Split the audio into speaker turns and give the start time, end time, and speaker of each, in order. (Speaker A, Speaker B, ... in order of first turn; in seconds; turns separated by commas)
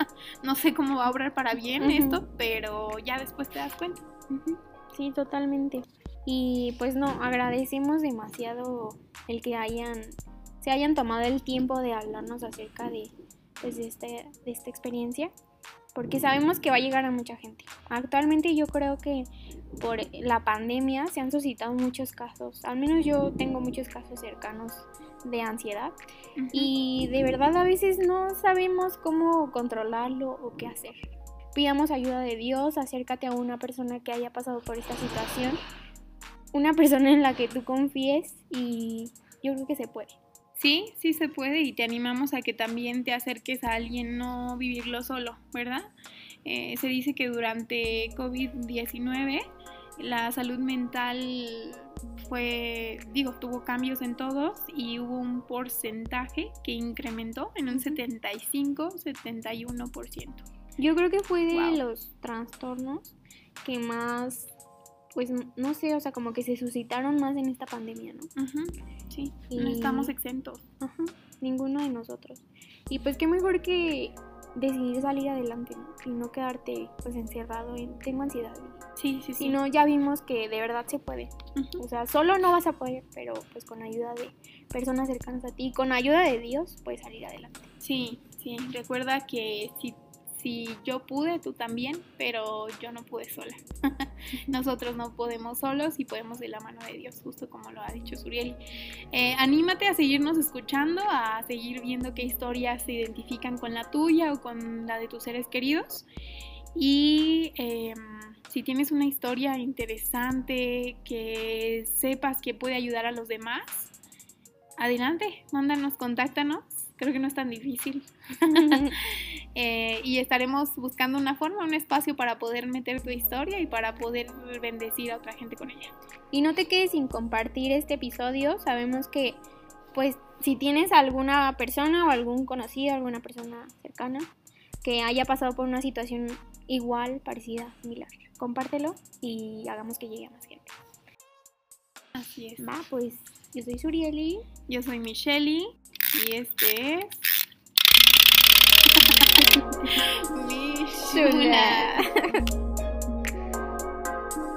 Speaker A: 0.4-4.0, Speaker B: 1.8-2.2, Speaker B: 4.3-15.3, Speaker B: 15.9-19.3, Speaker B: 19.8-25.9, Speaker A: 26.4-26.7, Speaker B: 26.5-31.0, Speaker B: 31.6-35.6, Speaker B: 36.5-40.2, Speaker A: 40.6-45.9, Speaker A: 46.5-60.4, Speaker B: 57.7-58.0, Speaker B: 60.8-64.5, Speaker A: 61.5-61.8, Speaker B: 65.1-68.3, Speaker A: 68.4-70.7, Speaker B: 69.5-70.1, Speaker B: 70.8-78.8, Speaker A: 79.0-79.6, Speaker B: 79.4-87.7, Speaker A: 81.6-81.8, Speaker A: 87.8-98.6, Speaker A: 99.1-106.1, Speaker A: 106.8-113.9, Speaker A: 114.8-125.9, Speaker B: 118.5-119.0, Speaker B: 126.3-129.4, Speaker B: 129.9-134.3, Speaker B: 134.8-140.7, Speaker A: 142.2-142.6, Speaker B: 142.6-144.4, Speaker A: 144.7-147.2, Speaker A: 148.9-152.0, Speaker B: 151.1-152.1